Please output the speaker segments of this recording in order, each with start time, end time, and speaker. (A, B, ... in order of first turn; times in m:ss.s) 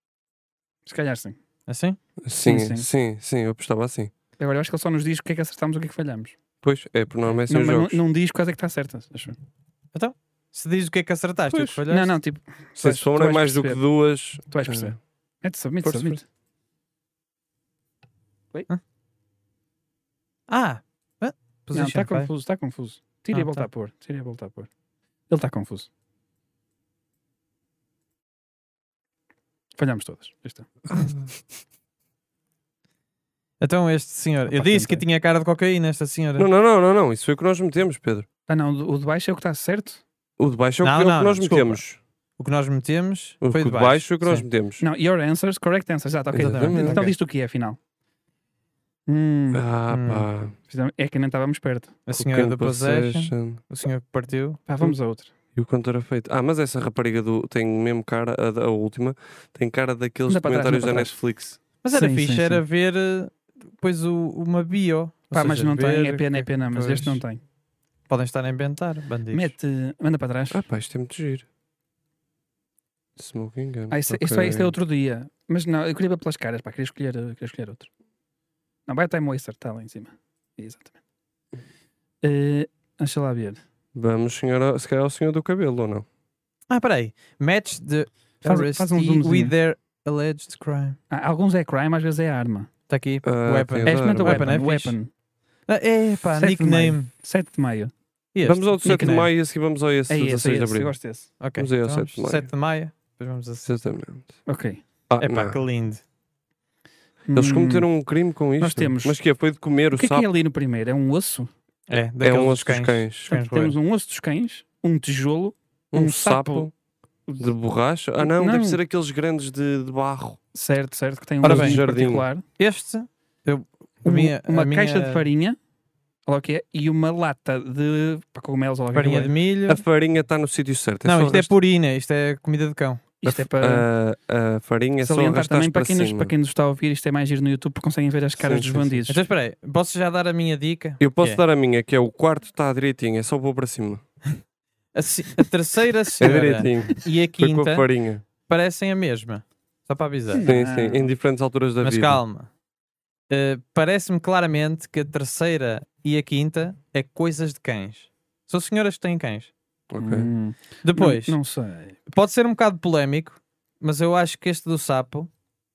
0:00.8-0:01.4 A
0:01.7-0:02.0 B
0:02.2-0:04.1 C
0:02.4-0:02.9 A
0:04.4-0:06.3 A
0:06.6-0:08.0 C
0:07.5-0:09.4 A
0:09.9-0:12.1 B
0:11.5-0:11.8 C
0:11.9-0:13.8 A
0:12.8-0:15.0 C
0:14.4-0:16.2 A
0:15.8-0:16.2 C
0:20.5-0:22.3 B
0:21.7-0:24.7 A
0:23.3-0:23.7 B
0:25.3-0:25.9 A
0:29.8-0:30.7 A
0:30.9-0:31.3 C
0:33.6-0:36.5 B
0:34.5-0:35.0 A
0:36.4-0:38.2 C
0:38.5-0:40.0 A
0:40.4-0:42.0 C
0:40.8-0:41.8 B
0:42.4-0:44.4 B
0:43.4-0:44.8 C
0:44.8-0:47.8 A
0:46.3-0:47.1 C
0:46.4-0:47.1 B
0:49.1-0:49.6 A
0:49.5-0:50.5 C
0:49.9-0:50.3 B
0:50.7-0:52.0 A
0:52.1-0:54.9 B
0:52.1-0:53.6 C
0:54.7-0:55.3 A
0:55.5-1:01.6 C
1:00.3-1:01.1 A
1:01.8-1:07.2 B
1:01.9-1:02.6 A
1:05.3-1:07.4 A
1:08.1-1:09.5 B
1:09.3-1:10.6 A
1:10.5-1:11.4 C
1:13.2-1:14.7 C
1:13.9-1:17.9 A
1:18.9-1:20.9 A
1:22.2-1:23.6 A
1:23.9-1:26.0 C
1:26.7-1:31.0 B
1:28.4-1:29.5 A
1:31.1-1:32.7 A
1:32.9-1:35.0 B
1:33.2-1:34.6 C
1:33.8-1:35.1 A
1:35.7-1:37.1 B
1:36.4-1:37.9 A
1:38.3-1:39.2 B
1:38.4-1:40.9 C
1:38.8-1:39.2 A
1:40.1-1:41.3 A
1:41.4-1:43.7 B
1:41.6-1:42.5 C
1:43.6-1:44.3 C
1:44.4-1:44.8 A
1:45.1-1:45.6 C
1:45.2-1:46.0 B
1:47.3-1:47.9 A
1:47.3-1:50.2 C
1:48.6-1:49.2 A
1:49.9-1:51.5 A
1:51.9-1:53.8 B
1:52.2-1:53.3 C
1:53.3-1:56.7 A
1:55.9-1:56.7 C
1:57.4-2:00.4 C
1:58.2-1:58.8 A
2:00.5-2:02.4 A
2:01.4-2:01.8 B
2:01.4-2:02.2 C
2:02.6-2:05.2 B
2:04.0-2:05.6 A
2:06.2-2:09.3 A
2:08.9-2:09.8 B
2:09.7-2:11.5 C
2:11.0-2:13.0 B
2:13.2-2:13.8 A
2:13.2-2:16.3 C
2:15.0-2:19.2 A
2:18.4-2:19.0 C
2:19.1-2:21.4 B
2:21.0-2:24.0 C
2:24.9-2:27.9 B
2:26.2-2:28.2 C
2:28.4-2:30.5 B
2:30.3-2:31.1 A
2:30.4-2:32.2 C
2:31.8-2:32.5 B
2:33.3-2:39.5 B
2:39.9-2:40.3 C
2:40.0-2:42.0 A
2:40.8-2:41.4 B
2:42.1-2:45.3 B